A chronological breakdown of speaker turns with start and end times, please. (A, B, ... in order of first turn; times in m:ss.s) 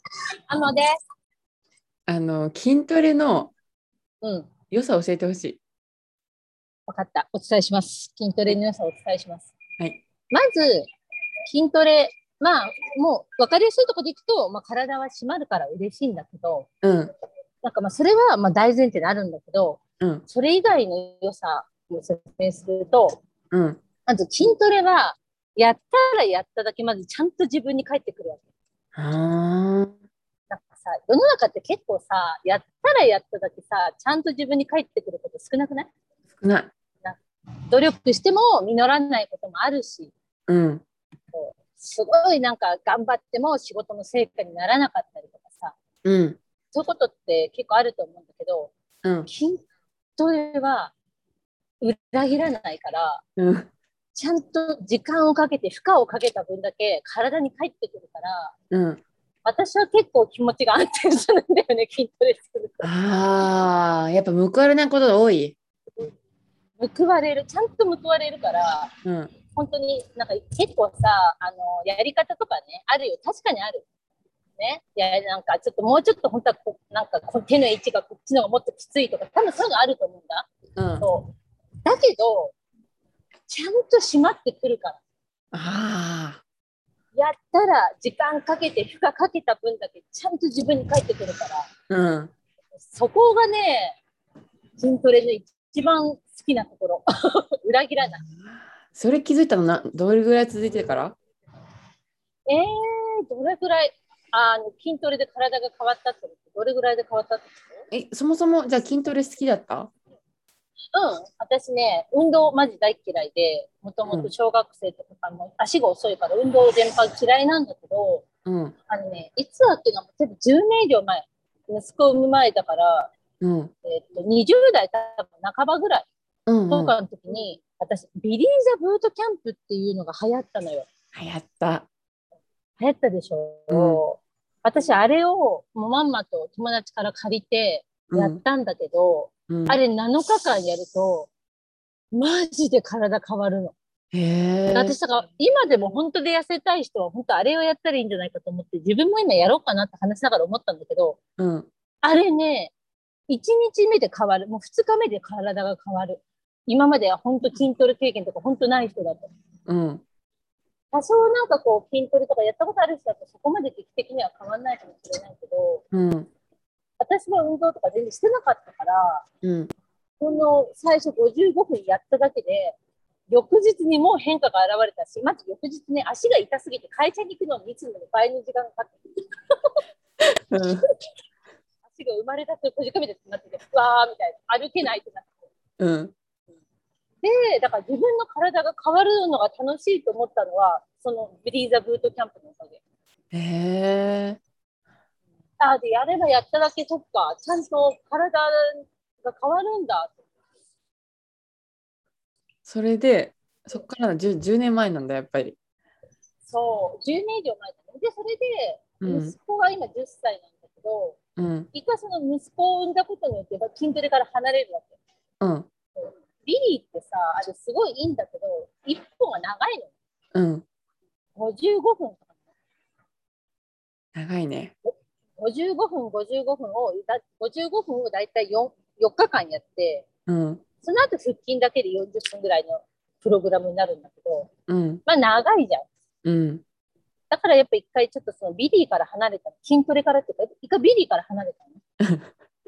0:00.5-0:00.9 A
0:02.1-0:03.5 B
0:04.2-0:04.5 A
0:04.7-0:05.6 B
0:06.9-0:09.5 A
0:10.3-0:10.9 A
0:11.5-0:16.7 A
0:16.8-0:17.1 B
0:17.6-0:23.2 A
0:23.5-0:23.8 B
0:24.0-0:28.4 A
0:28.9-0:29.9 B
0:30.5-0:35.9 A
0:36.4-0:36.7 B
0:37.7-0:40.1 A
0:40.5-0:40.8 B
0:41.3-0:45.7 A
0:46.0-0:46.4 B
0:46.7-0:48.7 A
0:49.0-0:49.3 B
0:49.3-0:49.6 A
0:50.2-0:50.9 A
0:51.8-0:53.2 A
0:53.4-0:53.7 B
0:54.1-0:58.5 A
0:58.7-0:59.0 B
0:59.4-1:02.9 A
1:02.8-1:05.6 B
1:06.8-1:08.9 A
1:09.0-1:09.3 B
1:09.5-1:13.8 A
1:14.6-1:20.5 A
1:20.8-1:21.1 B
1:21.0-1:21.3 A
1:21.8-1:22.5 A
1:23.5-1:25.0 A
1:25.5-1:26.4 B
1:27.1-1:31.7 A
1:31.9-1:32.3 B
1:32.9-1:34.0 A
1:34.8-1:37.0 A
1:37.6-1:38.2 A
1:38.4-1:41.2 B
1:42.5-1:47.8 A
1:47.9-1:49.9 B
1:50.9-1:58.2 A
1:54.0-1:54.3 B
1:58.4-1:58.7 B
1:58.9-2:03.1 A
2:03.4-2:03.7 B
2:03.8-2:06.1 A
2:06.5-2:06.9 B
2:06.7-2:10.9 A
2:11.1-2:11.9 B
2:12.8-2:21.3 A
2:13.7-2:14.0 B
2:18.1-2:18.4 B
2:19.5-2:19.8 B
2:22.1-2:23.7 A
2:24.1-2:25.0 B
2:24.7-2:31.2 A
2:31.4-2:31.7 B
2:32.0-2:32.7 A
2:33.3-2:39.3 A
2:39.7-2:40.0 B
2:40.9-2:45.8 A
2:45.9-2:46.3 B
2:47.0-2:49.2 A
2:49.4-2:49.7 B
2:50.2-2:52.8 A
2:53.3-2:59.0 A
2:59.5-2:59.8 A
3:00.5-3:00.8 B
3:01.8-3:05.3 A
3:05.8-3:06.1 B
3:07.2-3:12.8 A
3:13.3-3:14.4 B
3:15.6-3:20.2 A
3:22.6-3:25.6 B
3:26.4-3:31.2 A
3:29.0-3:29.3 B
3:31.4-3:31.7 B
3:31.7-3:35.0 A
3:35.4-3:35.7 B
3:36.0-3:39.9 A
3:40.3-3:40.6 B
3:41.3-3:42.2 A
3:44.1-3:44.7 B
3:44.8-3:50.1 A
3:50.3-3:50.6 B
3:50.8-3:54.5 A
3:54.7-3:55.0 B
3:55.0-3:55.9 A
3:56.2-3:56.6 B
3:57.3-4:01.8 A